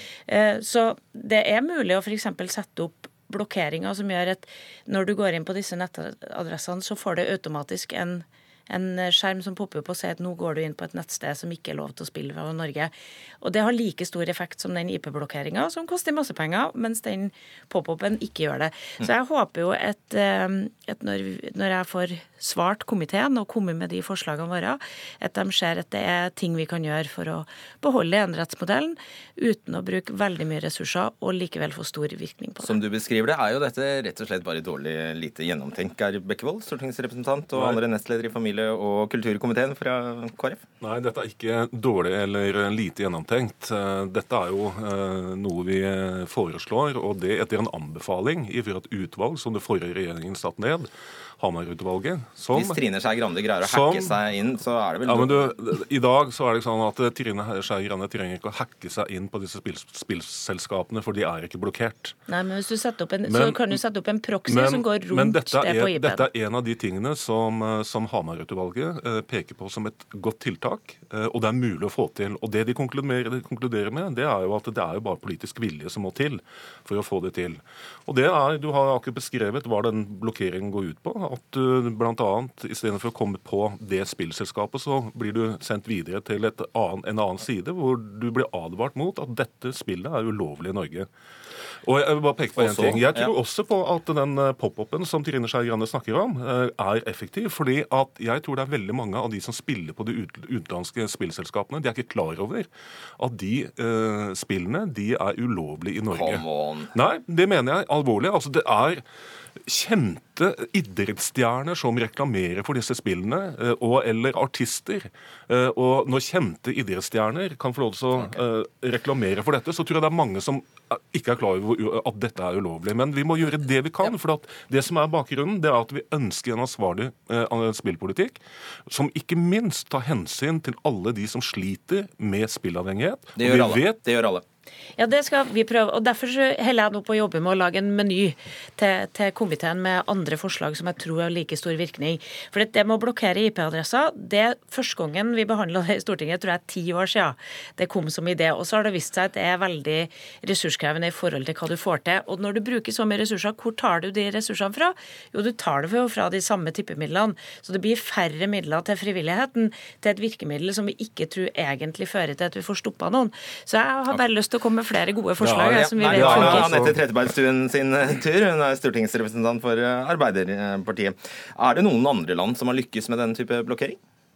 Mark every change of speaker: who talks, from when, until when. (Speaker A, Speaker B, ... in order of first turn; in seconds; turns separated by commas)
Speaker A: 0.3-32.8, Speaker B: 32.6-40.6, Speaker C: 37.5-37.8, Speaker C: 40.8-52.8, Speaker B: 52.5-55.5, Speaker C: 53.6-54.1, Speaker C: 55.0-62.1, Speaker A: 62.3-66.3, Speaker C: 63.3-63.8, Speaker C: 64.5-91.1, Speaker C: 91.8-109.0, Speaker B: 92.5-93.3, Speaker B: 106.1-106.9, Speaker C: 109.6-134.0, Speaker B: 133.3-134.4, Speaker A: 135.0-166.8, Speaker C: 165.4-167.0, Speaker B: 165.5-174.0